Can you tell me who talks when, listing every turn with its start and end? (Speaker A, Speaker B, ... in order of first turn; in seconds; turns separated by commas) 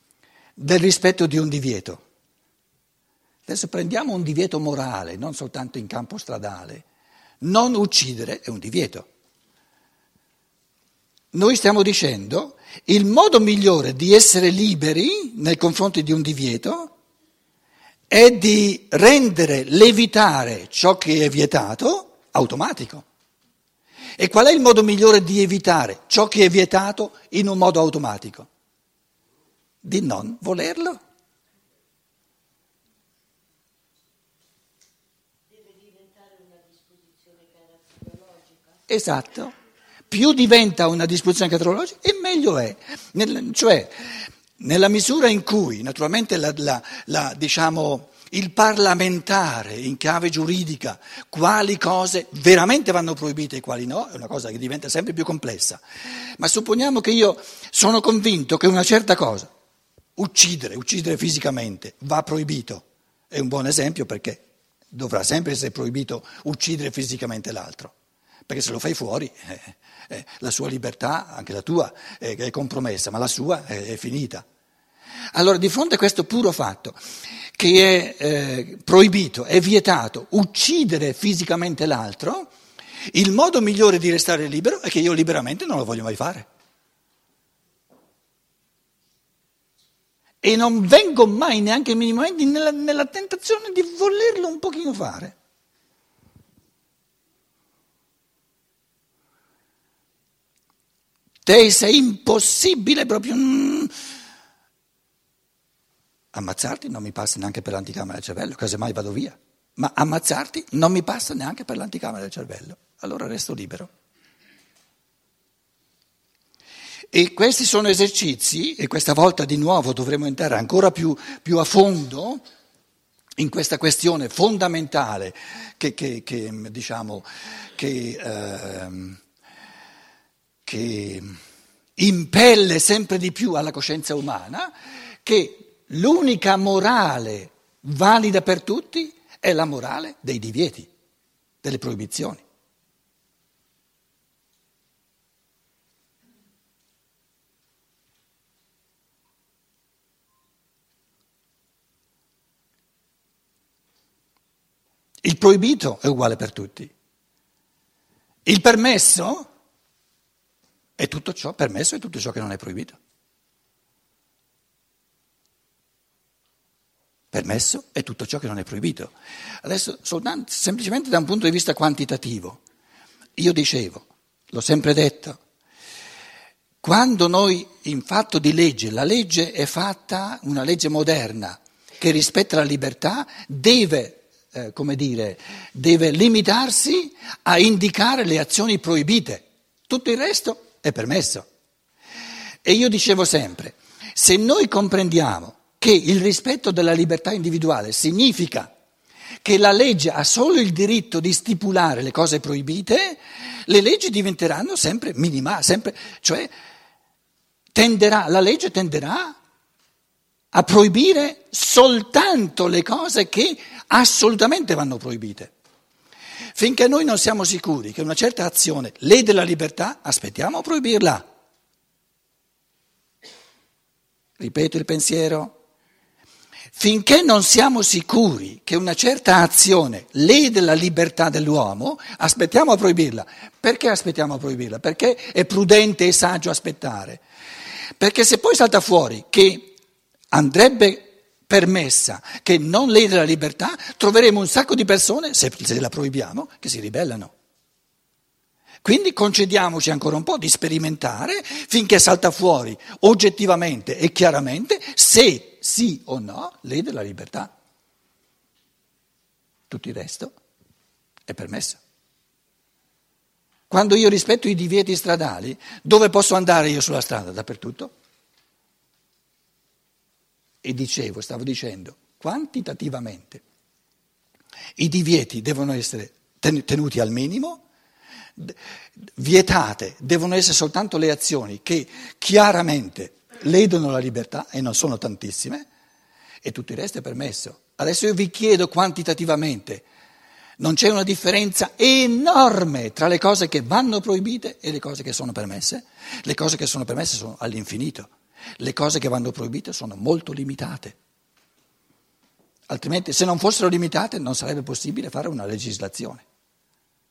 Speaker A: 0.6-2.0, Speaker A: 3.5-6.8, Speaker A: 7.4-9.1, Speaker A: 11.3-16.9, Speaker A: 18.1-23.0, Speaker A: 24.2-28.5, Speaker A: 29.8-31.0, Speaker A: 38.9-39.5, Speaker A: 40.1-43.9, Speaker A: 44.6-55.8, Speaker A: 56.4-59.5, Speaker A: 60.1-67.9, Speaker A: 68.5-74.4, Speaker A: 75.3-77.0, Speaker A: 77.6-82.5, Speaker A: 83.1-86.5, Speaker A: 90.4-95.3, Speaker A: 101.5-103.9, Speaker A: 106.3-113.9, Speaker A: 117.1-122.4, Speaker A: 123.4-129.2, Speaker A: 130.7-131.3, Speaker A: 132.0-134.7, Speaker A: 135.2-140.9, Speaker A: 141.6-142.4, Speaker A: 155.2-156.9, Speaker A: 158.4-159.5, Speaker A: 161.0-163.0, Speaker A: 167.3-172.6, Speaker A: 173.4-175.4, Speaker A: 176.8-191.5, Speaker A: 192.6-198.7, Speaker A: 199.4-206.5, Speaker A: 207.7-209.4, Speaker A: 210.5-215.6, Speaker A: 216.6-221.2, Speaker A: 224.4-225.6, Speaker A: 226.8-237.2, Speaker A: 238.0-239.7, Speaker A: 240.3-247.3, Speaker A: 248.8-257.5, Speaker A: 259.7-260.4, Speaker A: 261.3-261.8, Speaker A: 263.7-267.9, Speaker A: 270.6-273.4, Speaker A: 274.8-277.6, Speaker A: 278.4-285.7, Speaker A: 286.4-289.9, Speaker A: 290.6-300.9, Speaker A: 302.7-306.2